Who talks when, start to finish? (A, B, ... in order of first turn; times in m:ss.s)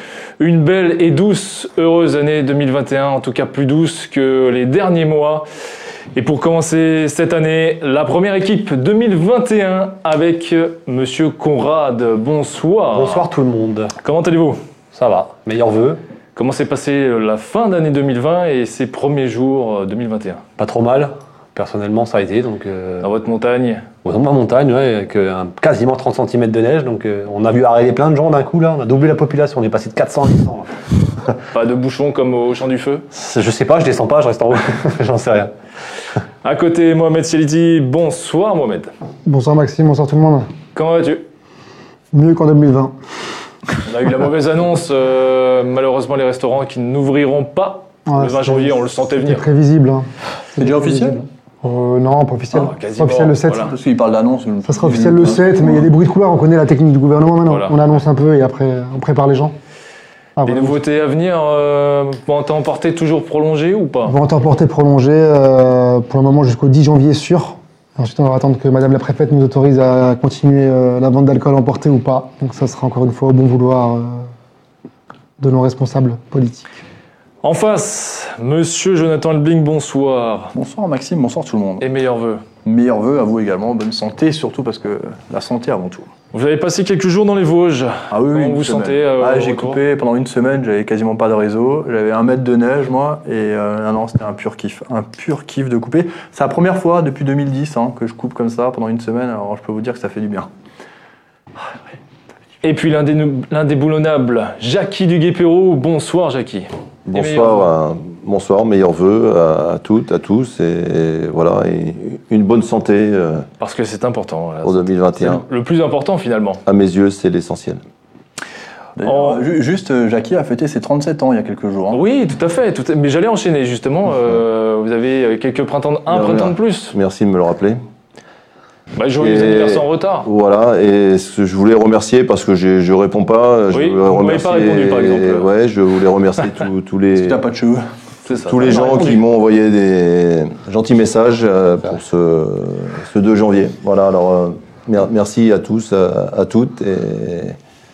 0:00.4-0:05.4 A
0:06.2-0:13.2 A
0:12.9-0:13.9 B
0:14.0-0:14.6 A
0:14.9-0:16.0 B
0:16.4-0:20.4 A
0:20.6-0:23.1 B
0:23.0-0:23.9 A
0:24.0-0:30.7 B
0:31.5-0:33.1 A
0:33.1-0:35.5 B
0:36.4-0:38.9 A
0:39.2-0:40.5 C
0:40.8-0:41.2 A
0:42.1-0:42.9 C
0:43.8-0:49.5 A
0:48.1-0:50.1 C
0:50.6-0:53.7 C
0:50.6-0:51.2 D
0:52.5-0:53.7 A
0:53.5-0:55.9 D
0:54.6-0:59.6 C
0:57.5-0:57.8 A
1:00.4-1:00.8 C
1:00.4-1:04.2 A
1:04.1-1:14.3 C
1:15.4-1:16.7 C
1:17.4-1:20.5 A
1:20.5-1:21.8 D
1:21.8-1:22.4 A
1:22.6-1:26.1 D
1:26.3-1:29.8 A
1:28.1-1:40.5 D
1:42.6-1:47.7 A
1:47.1-1:53.5 E
1:53.6-1:56.6 A
1:54.6-1:55.4 E
1:56.6-1:57.8 E
1:59.0-2:02.0 D
1:59.0-1:59.4 A
2:01.9-2:07.0 A
2:06.1-2:07.8 E
2:09.0-2:10.3 A
2:09.2-2:17.4 E
2:13.7-2:15.5 A
2:17.1-2:17.9 D
2:18.2-2:19.2 A
2:18.4-2:27.6 E